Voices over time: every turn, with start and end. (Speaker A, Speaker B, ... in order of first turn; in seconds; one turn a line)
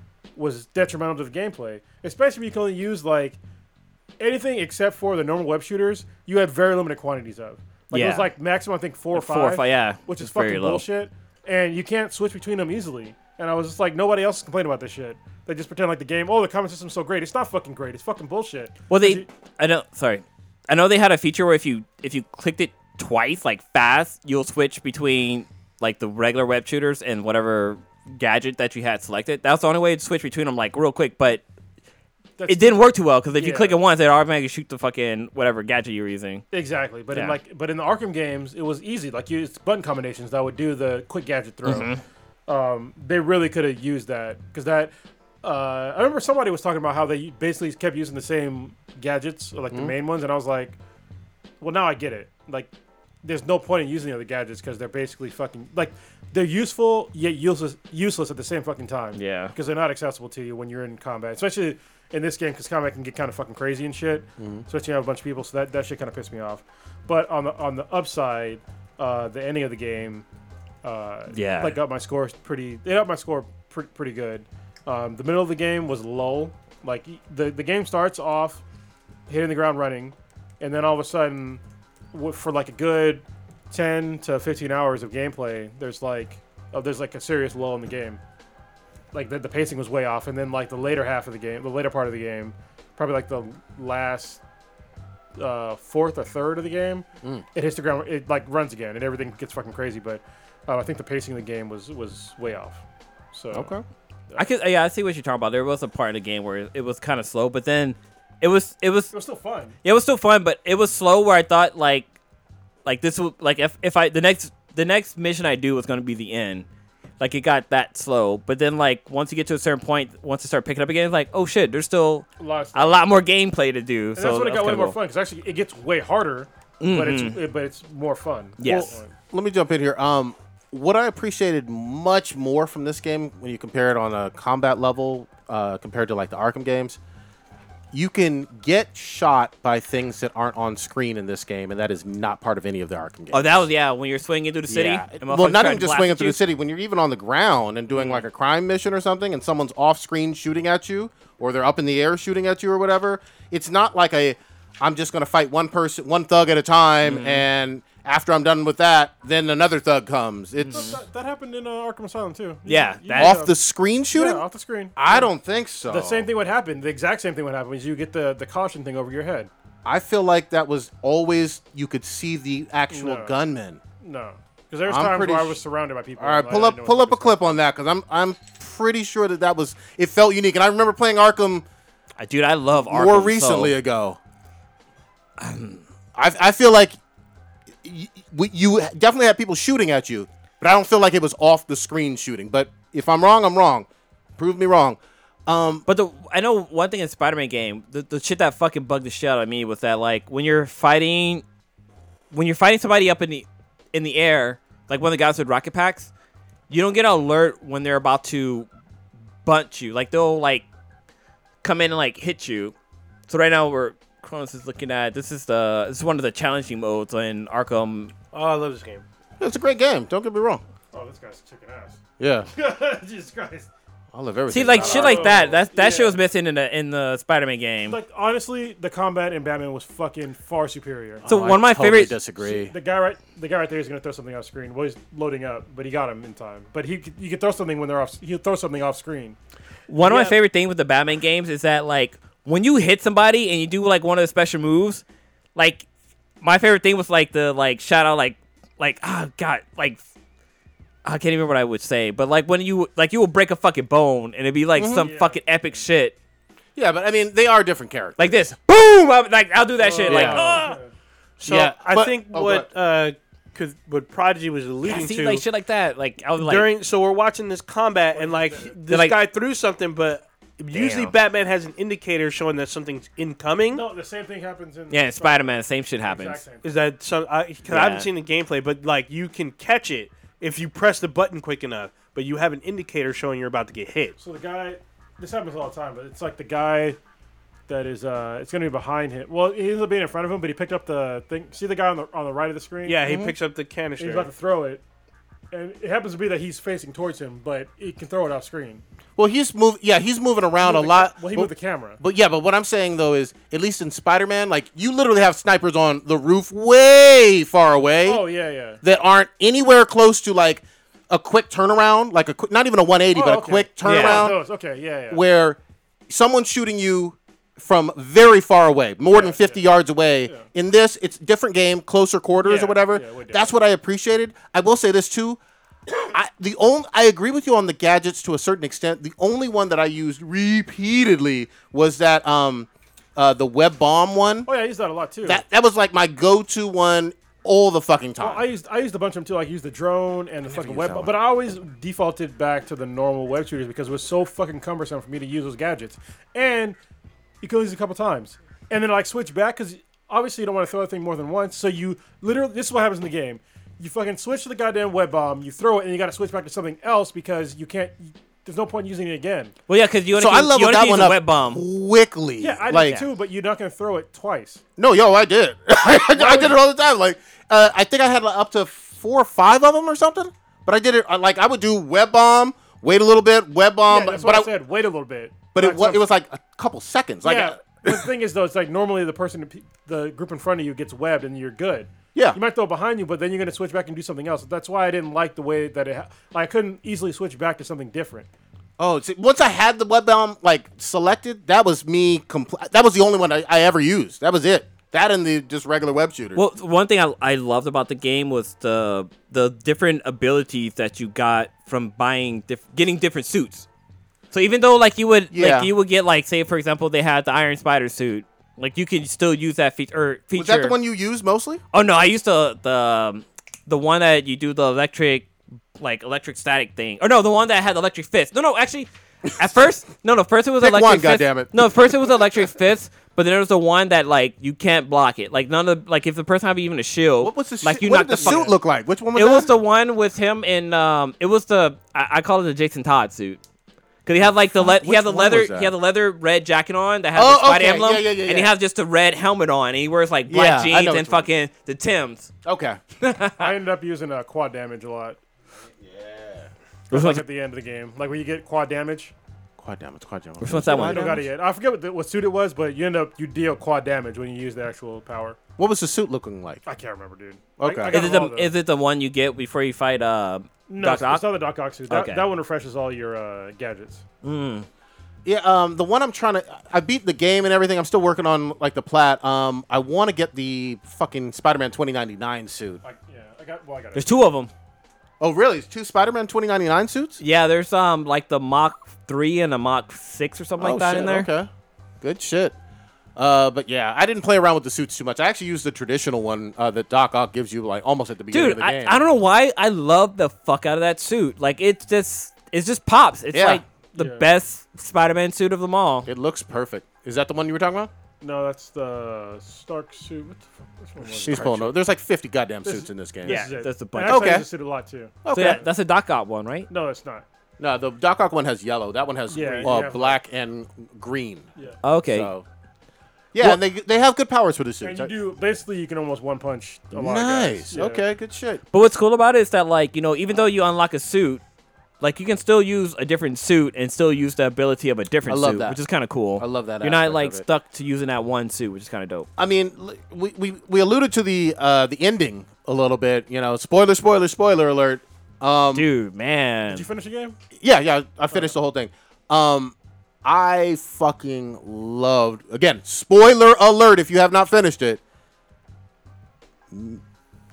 Speaker A: 0.4-3.4
Speaker A: 4.2-19.3
Speaker B: 7.9-8.3
Speaker B: 9.1-10.9
Speaker B: 18.9-31.4
Speaker A: 32.4-33.8
Speaker B: 32.5-36.4
Speaker A: 36.5-41.9
Speaker B: 37.1-37.4
Speaker B: 41.6-42.0
Speaker A: 42.5-44.9
Speaker A: 45.4-50.8
Speaker A: 51.6-52.7
Speaker A: 53.2-70.2
Speaker B: 59.2-59.5
Speaker C: 64.4-64.7
Speaker A: 70.8-78.6
Speaker B: 71.3-71.8
Speaker A: 79.3-81.6
Speaker A: 82.1-88.2
Speaker A: 89.1-94.4
Speaker A: 95.4-102.8
Speaker A: 103.3-103.7
Speaker C: 103.5-103.8
Speaker B: 104.4-109.1
Speaker A: 109.1-109.8
Speaker B: 109.8-112.1
Speaker B: 112.8-116.7
Speaker B: 117.2-125.0
Speaker A: 122.4-123.0
Speaker A: 124.2-129.1
Speaker B: 126.8-127.4
Speaker B: 128.6-128.9
Speaker C: 128.6-137.0
Speaker C: 137.9-143.7
Speaker B: 143.3-146.4
Speaker C: 144.7-160.9
Speaker B: 147.9-148.2
Speaker B: 157.0-157.5
Speaker A: 160.7-163.5
Speaker B: 162.7-163.4
Speaker C: 163.2-164.4
Speaker A: 164.1-165.3
Speaker C: 165.0-166.3
Speaker A: 165.9-169.5
Speaker C: 169.8-173.8
Speaker A: 172.9-173.4
Speaker A: 174.0-177.4
Speaker C: 174.9-175.6
Speaker C: 176.2-181.7
Speaker B: 182.2-183.7
Speaker C: 182.9-184.2
Speaker B: 185.4-185.8
Speaker C: 186.2-187.0
Speaker C: 187.8-193.9
Speaker C: 194.4-195.9
Speaker B: 195.9-201.4
Speaker B: 202.3-206.1
Speaker B: 206.7-208.7
Speaker B: 209.4-210.7
Speaker B: 211.6-212.8
Speaker B: 213.3-218.1
Speaker D: 218.3-219.1
Speaker C: 219.4-220.6
Speaker A: 220.9-223.7
Speaker C: 222.2-222.5
Speaker C: 224.1-225.5
Speaker B: 224.5-228.0
Speaker A: 224.8-226.2
Speaker A: 227.8-231.3
Speaker C: 231.2-232.7
Speaker B: 231.3-232.2
Speaker A: 232.4-239.4
Speaker B: 239.9-245.0
Speaker D: 240.0-240.3
Speaker B: 245.6-245.9
Speaker B: 246.4-250.0
Speaker B: 251.0-256.1
Speaker C: 254.8-255.1
Speaker A: 255.0-255.4
Speaker C: 256.8-258.4
Speaker B: 258.2-260.8
Speaker A: 259.8-260.9
Speaker D: 260.0-260.8
Speaker C: 260.1-260.4
Speaker D: 261.4-265.4
Speaker C: 261.4-262.7
Speaker B: 264.8-266.7
Speaker D: 266.4-273.9
Speaker A: 268.1-268.8
Speaker B: 268.9-269.2
Speaker B: 270.7-271.1
Speaker A: 273.7-276.7
Speaker B: 274.9-276.4
Speaker D: 276.6-284.2
Speaker B: 277.7-278.1
Speaker A: 284.2-287.0
Speaker A: 287.7-293.0
Speaker D: 292.9-294.3
Speaker C: 293.1-293.4
Speaker A: 294.0-294.8
Speaker A: 295.5-298.8
Speaker C: 299.2-308.2
Speaker A: 300.6-302.0
Speaker A: 308.1-308.8
Speaker C: 308.8-314.4
Speaker A: 313.1-315.2
Speaker B: 313.8-314.3
Speaker C: 315.1-325.4
Speaker A: 319.1-319.6
Speaker A: 322.4-323.6
Speaker C: 326.0-334.5
Speaker A: 334.5-335.4
Speaker C: 335.2-338.5
Speaker A: 338.2-346.8
Speaker C: 340.5-341.1
Speaker A: 347.4-359.5
Speaker B: 359.7-361.6
Speaker C: 360.1-363.0
Speaker A: 362.4-364.6
Speaker C: 364.8-374.5
Speaker A: 366.1-366.6
Speaker A: 373.9-376.0
Speaker C: 375.5-378.1
Speaker A: 377.2-388.3
Speaker C: 388.8-396.4
Speaker B: 396.4-403.7
Speaker B: 404.3-410.8
Speaker C: 405.3-405.7
Speaker C: 410.4-411.6
Speaker B: 411.7-428.5
Speaker C: 420.6-421.6
Speaker C: 427.2-429.5
Speaker A: 428.2-428.5
Speaker B: 429.1-433.4
Speaker B: 434.1-442.3
Speaker C: 434.2-435.7
Speaker C: 437.2-438.5
Speaker C: 440.3-441.3
Speaker C: 442.4-442.8
Speaker B: 443.0-443.5
Speaker A: 443.4-445.2
Speaker C: 445.8-446.5
Speaker A: 446.9-449.1
Speaker B: 446.9-447.2
Speaker C: 449.6-451.2
Speaker B: 450.4-451.2
Speaker A: 450.6-455.4
Speaker C: 455.6-456.6
Speaker A: 456.7-458.5
Speaker C: 457.6-458.0
Speaker B: 457.9-461.3
Speaker A: 460.7-464.0
Speaker B: 461.9-462.3
Speaker B: 464.2-464.7
Speaker C: 465.2-472.8
Speaker A: 472.8-474.1
Speaker B: 473.9-474.5
Speaker C: 475.2-477.2
Speaker B: 477.2-481.3
Speaker C: 480.6-481.5
Speaker C: 482.0-482.6
Speaker C: 483.2-489.0
Speaker B: 488.3-496.1
Speaker C: 493.3-493.6
Speaker A: 494.0-494.3
Speaker C: 496.1-497.9
Speaker A: 498.2-501.8
Speaker C: 501.1-503.4
Speaker A: 502.6-505.6
Speaker B: 503.3-504.4
Speaker C: 504.0-504.5
Speaker C: 505.2-505.6
Speaker B: 505.3-506.7
Speaker A: 506.7-507.2
Speaker C: 507.6-511.5
Speaker A: 509.3-510.2
Speaker B: 511.8-512.3
Speaker C: 512.1-512.5
Speaker C: 513.3-515.1
Speaker A: 514.8-518.0
Speaker C: 516.9-518.6
Speaker B: 518.7-521.4
Speaker B: 522.0-529.3
Speaker C: 525.3-525.8
Speaker C: 526.4-527.5
Speaker C: 529.4-535.9
Speaker B: 535.7-536.9
Speaker A: 536.7-537.4
Speaker C: 537.6-545.0
Speaker C: 546.7-547.0